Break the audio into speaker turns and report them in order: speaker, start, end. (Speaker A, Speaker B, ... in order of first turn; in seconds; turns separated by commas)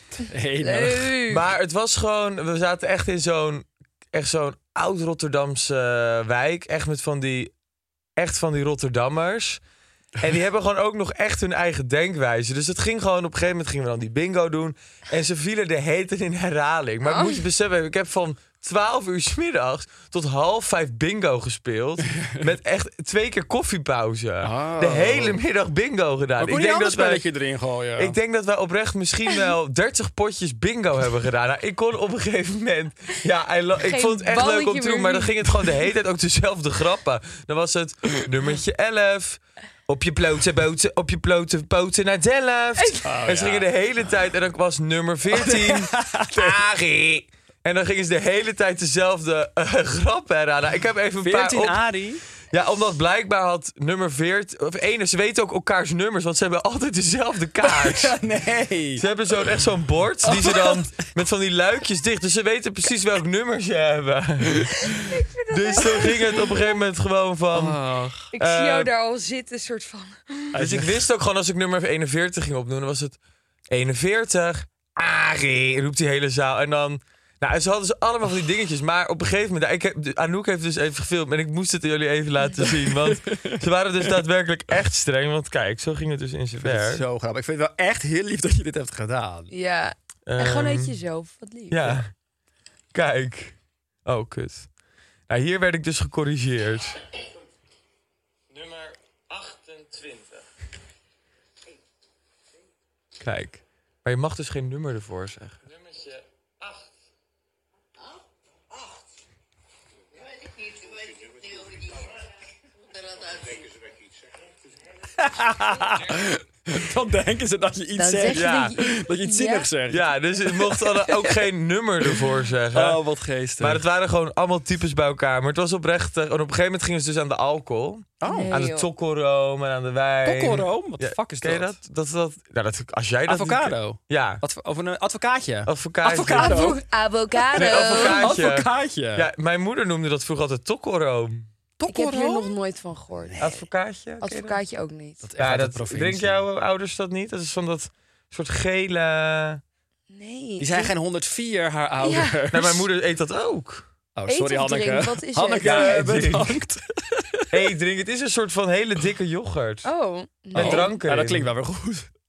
Speaker A: 0.3-1.2, Speaker B: 0.6-1.4, Speaker C: 1.3-7.5, Speaker C: 8.2-9.6, Speaker C: 10.2-27.3, Speaker B: 17.1-17.4, Speaker A: 24.4-25.4, Speaker A: 26.4-28.1, Speaker C: 28.0-51.8, Speaker B: 33.9-35.2, Speaker A: 43.0-43.7, Speaker A: 45.3-46.6, Speaker A: 51.2-52.2, Speaker C: 52.5-58.2, Speaker A: 57.6-59.0, Speaker C: 59.0-67.8, Speaker A: 60.2-61.0, Speaker B: 64.9-66.5, Speaker A: 67.5-68.3, Speaker B: 68.3-70.5, Speaker C: 68.4-68.9, Speaker A: 70.5-71.0, Speaker C: 70.5-73.2, Speaker C: 73.7-87.0, Speaker A: 82.6-83.6, Speaker A: 86.6-89.5, Speaker B: 89.5-91.8, Speaker C: 90.3-91.0, Speaker C: 91.7-92.1, Speaker C: 92.9-94.7, Speaker C: 95.3-97.0, Speaker C: 98.5-100.4, Speaker C: 103.2-106.8, Speaker A: 115.2-121.4, Speaker B: 118.0-119.7, Speaker C: 118.3-118.7, Speaker C: 119.9-123.0, Speaker A: 122.7-123.8, Speaker C: 123.6-134.4, Speaker A: 128.2-128.6, Speaker B: 128.2-128.8, Speaker A: 130.2-131.8, Speaker A: 133.3-136.8, Speaker C: 135.7-136.7, Speaker B: 136.3-138.3, Speaker A: 137.4-139.3, Speaker C: 137.5-141.5, Speaker A: 141.8-142.5, Speaker B: 141.9-143.6, Speaker C: 143.4-144.6, Speaker B: 144.2-145.2, Speaker A: 145.2-146.4, Speaker C: 145.4-149.6, Speaker B: 150.1-150.9, Speaker A: 150.6-152.9, Speaker B: 152.0-152.3, Speaker C: 152.5-153.9, Speaker A: 154.2-157.7, Speaker B: 154.3-155.9, Speaker C: 155.6-156.6, Speaker C: 157.5-159.9, Speaker B: 159.8-160.9, Speaker C: 160.5-161.5, Speaker A: 160.5-162.1